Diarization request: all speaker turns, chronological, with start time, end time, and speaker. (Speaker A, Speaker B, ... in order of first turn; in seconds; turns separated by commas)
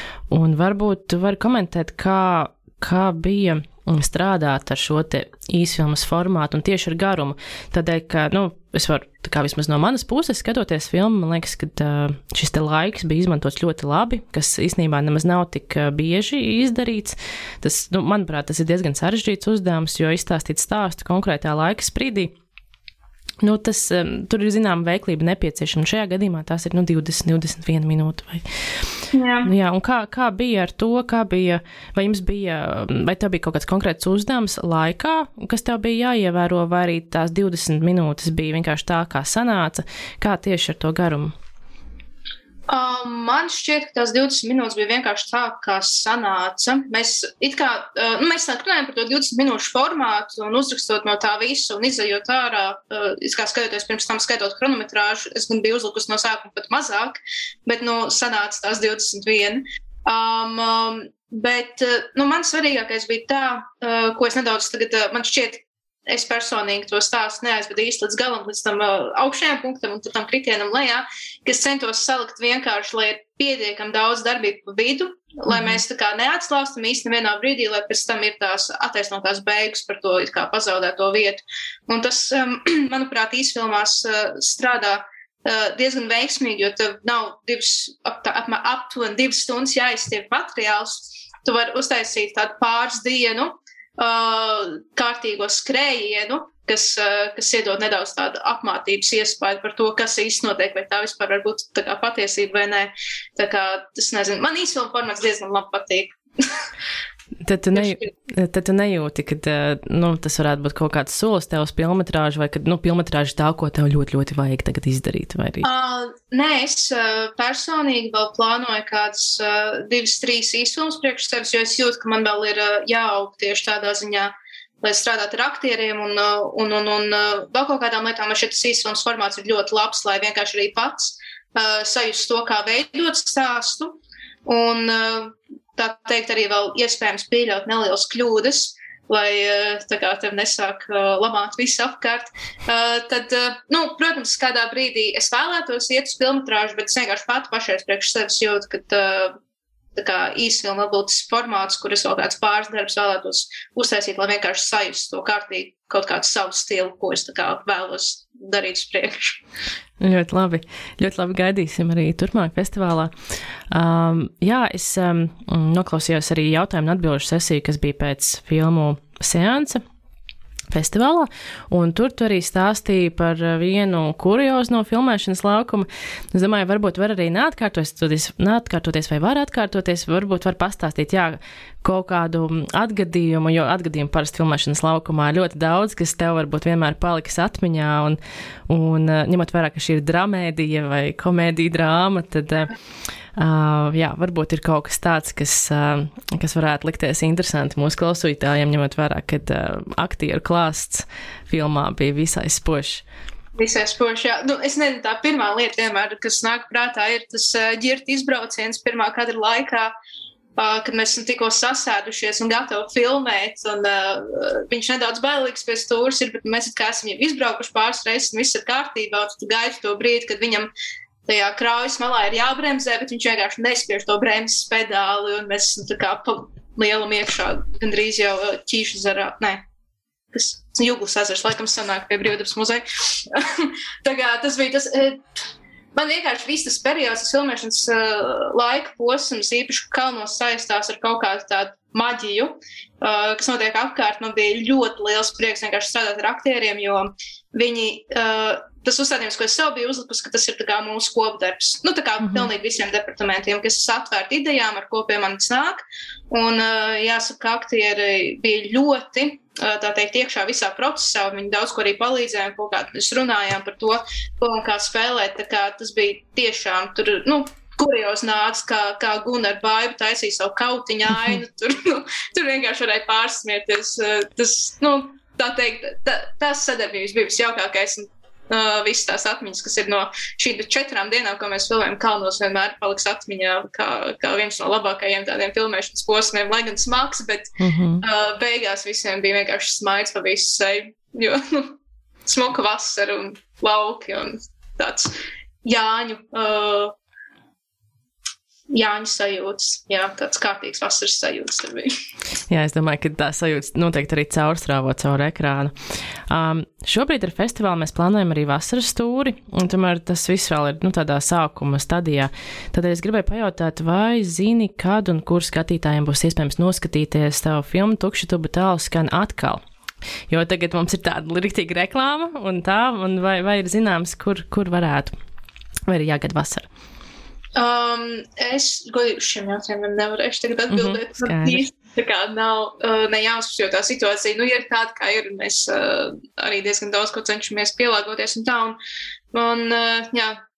Speaker A: 0.3-22.3, Speaker A: 23.4-28.4, Speaker B: 29.1-29.5, Speaker A: 29.4-41.3, Speaker B: 42.7-106.6, Speaker A: 75.5-75.8, Speaker A: 107.4-115.7, Speaker B: 107.8-108.1, Speaker B: 115.6-149.3, Speaker B: 149.9-159.4, Speaker A: 160.0-163.1, Speaker A: 163.7-169.8, Speaker A: 170.7-188.2, Speaker A: 188.7-192.7, Speaker A: 193.4-203.0, Speaker B: 203.6-209.9, Speaker B: 210.6-220.7, Speaker B: 221.3-229.6, Speaker B: 230.3-235.2, Speaker B: 235.9-295.1, Speaker A: 252.2-252.5, Speaker A: 287.6-288.0, Speaker B: 295.6-296.9, Speaker B: 298.7-301.9, Speaker A: 302.5-305.7, Speaker A: 306.3-319.6, Speaker A: 320.3-325.1, Speaker A: 325.9-326.7, Speaker B: 327.6-338.8, Speaker A: 330.7-331.6, Speaker B: 339.3-340.4